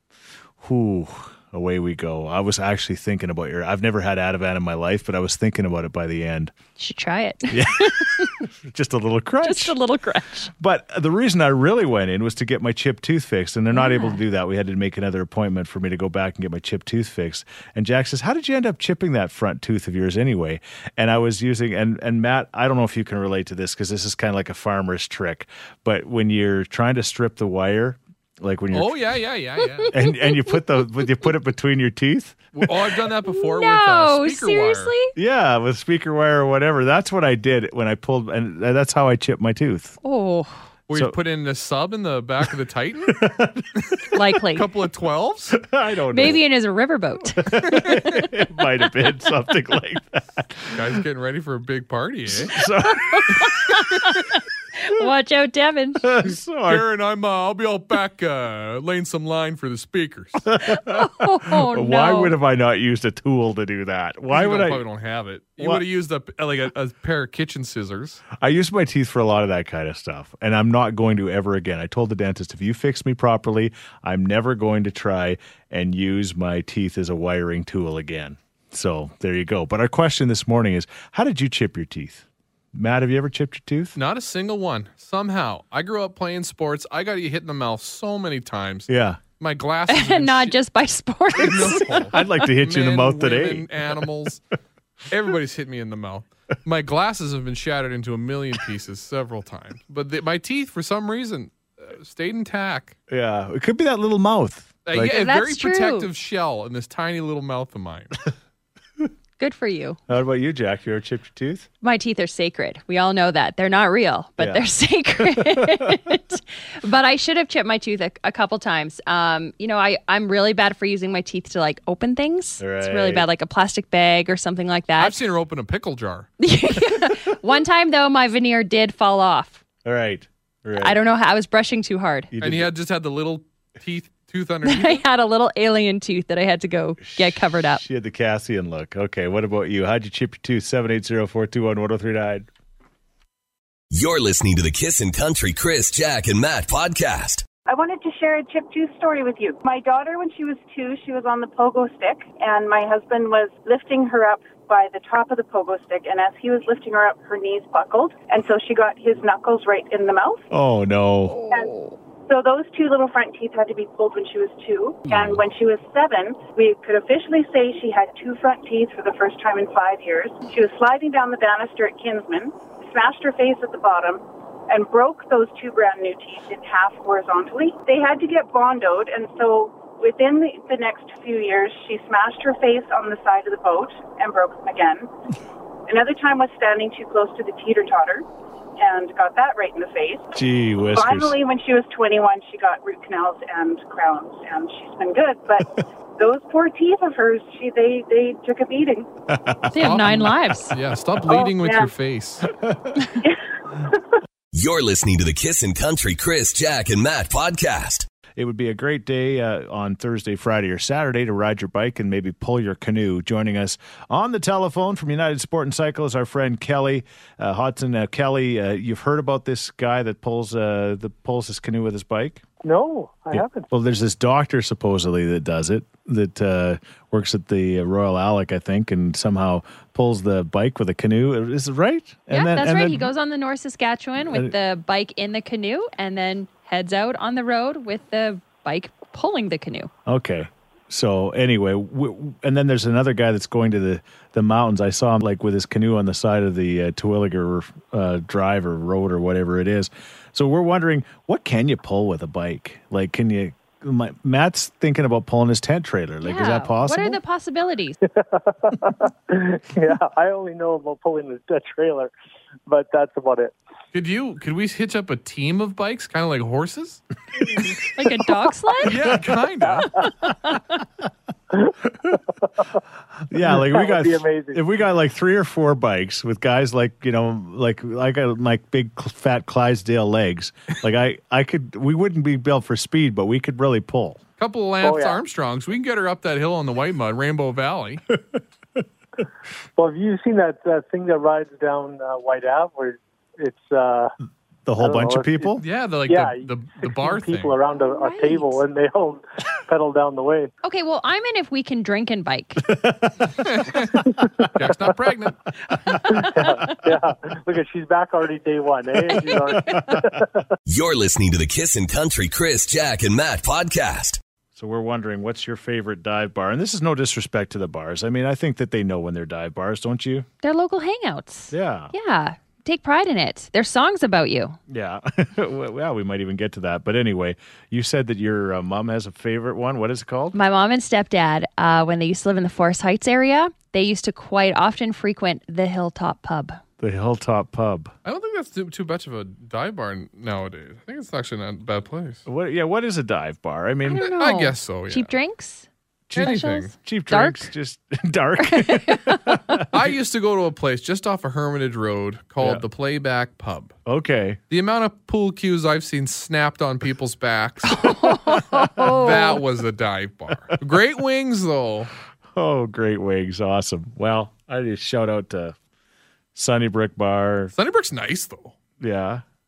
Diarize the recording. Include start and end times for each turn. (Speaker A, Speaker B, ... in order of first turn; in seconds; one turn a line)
Speaker A: 0.6-6.5
Speaker B: 6.8-8.4
Speaker A: 7.5-9.8
Speaker B: 9.4-10.5
Speaker A: 10.5-29.1
Speaker B: 13.7-14.2
Speaker C: 28.7-29.9
Speaker B: 29.8-30.1
Speaker A: 29.9-32.5
Speaker C: 32.5-34.9
Speaker B: 33.2-35.1
Speaker A: 35.1-40.0
Speaker B: 40.0-40.5
Speaker C: 40.9-45.6
Speaker A: 43.1-43.7
Speaker B: 44.1-44.6
Speaker A: 45.5-46.4
Speaker B: 46.1-48.3
Speaker A: 47.4-51.0
Speaker C: 50.7-52.6
Speaker A: 52.3-53.7
Speaker B: 52.6-56.1
Speaker A: 56.0-56.9
Speaker C: 56.7-60.4
Speaker A: 60.5-64.8
Speaker B: 60.6-62.4
Speaker C: 64.3-68.2
Speaker A: 68.3-84.0
Speaker C: 83.9-90.5
Speaker A: 88.9-89.2
Speaker B: 89.9-92.2
Speaker C: 91.3-94.4
Speaker A: 92.1-94.0
Speaker C: 95.1-103.0
Speaker A: 103.1-105.2
Speaker C: 104.8-108.3
Speaker B: 104.9-106.1
Speaker B: 109.4-110.0
Speaker A: 110.1-111.7
Speaker B: 111.8-125.2
Speaker A: 114.4-116.2
Speaker A: 122.6-123.2
Speaker C: 125.0-126.3
Speaker B: 126.4-129.6
Speaker A: 129.8-131.0
Speaker B: 130.8-132.3
Speaker A: 132.3-132.7
Speaker C: 132.4-135.1
Speaker B: 134.6-137.8
Speaker A: 137.0-142.5
Speaker D: 143.9-147.4
Speaker E: 147.7-160.5
Speaker A: 160.5-161.4
Speaker E: 162.3-185.1
Speaker A: 165.1-165.4
Speaker E: 185.9-188.2
Speaker E: 188.8-190.3
Speaker A: 190.3-191.4
Speaker E: 190.9-199.1
Speaker A: 199.3-200.3
Speaker B: 199.7-200.7
Speaker C: 199.8-202.5
Speaker E: 201.3-201.9
Speaker A: 202.6-203.0
Speaker D: 204.5-208.1
Speaker A: 208.3-222.4
Speaker F: 222.6-223.7
Speaker A: 223.3-233.1
Speaker B: 232.3-239.9
Speaker A: 234.2-234.5
Speaker A: 240.1-257.2
Speaker B: 256.2-258.0
Speaker F: 258.1-262.1
Speaker F: 262.7-263.5
Speaker C: 263.9-267.0
Speaker B: 267.9-269.0
Speaker C: 268.8-270.0
Speaker F: 269.7-270.1
Speaker F: 272.4-272.8
Speaker A: 273.3-284.2
Speaker F: 273.4-274.8
Speaker C: 284.4-288.0
Speaker F: 284.8-285.2
Speaker F: 289.8-294.1
Speaker A: 294.6-295.6
Speaker F: 294.8-300.5
Speaker C: 295.6-297.6
Speaker B: 297.8-298.6
Speaker B: 300.6-302.7
Speaker A: 302.7-303.3
Speaker C: 303.4-303.9
Speaker C: 304.5-305.4
Speaker B: 305.9-306.8
Speaker F: 306.1-310.4
Speaker B: 309.6-310.0
Speaker D: 310.7-314.2
Speaker A: 314.5-320.2
Speaker B: 320.4-324.6
Speaker A: 321.5-321.9
Speaker A: 324.7-330.4
Speaker B: 330.3-336.6
Speaker A: 336.8-337.9
Speaker C: 338.0-342.2
Speaker A: 342.2-344.1
Speaker B: 343.9-345.7
Speaker C: 344.0-345.1
Speaker A: 346.1-349.7
Speaker C: 346.1-346.7
Speaker B: 346.2-347.5
Speaker B: 348.4-349.7
Speaker C: 349.7-353.8
Speaker A: 353.9-354.4
Speaker C: 354.5-361.9
Speaker B: 357.7-359.4
Speaker A: 362.3-365.6
Speaker A: 366.3-367.5
Speaker C: 367.5-368.5
Speaker A: 368.8-369.2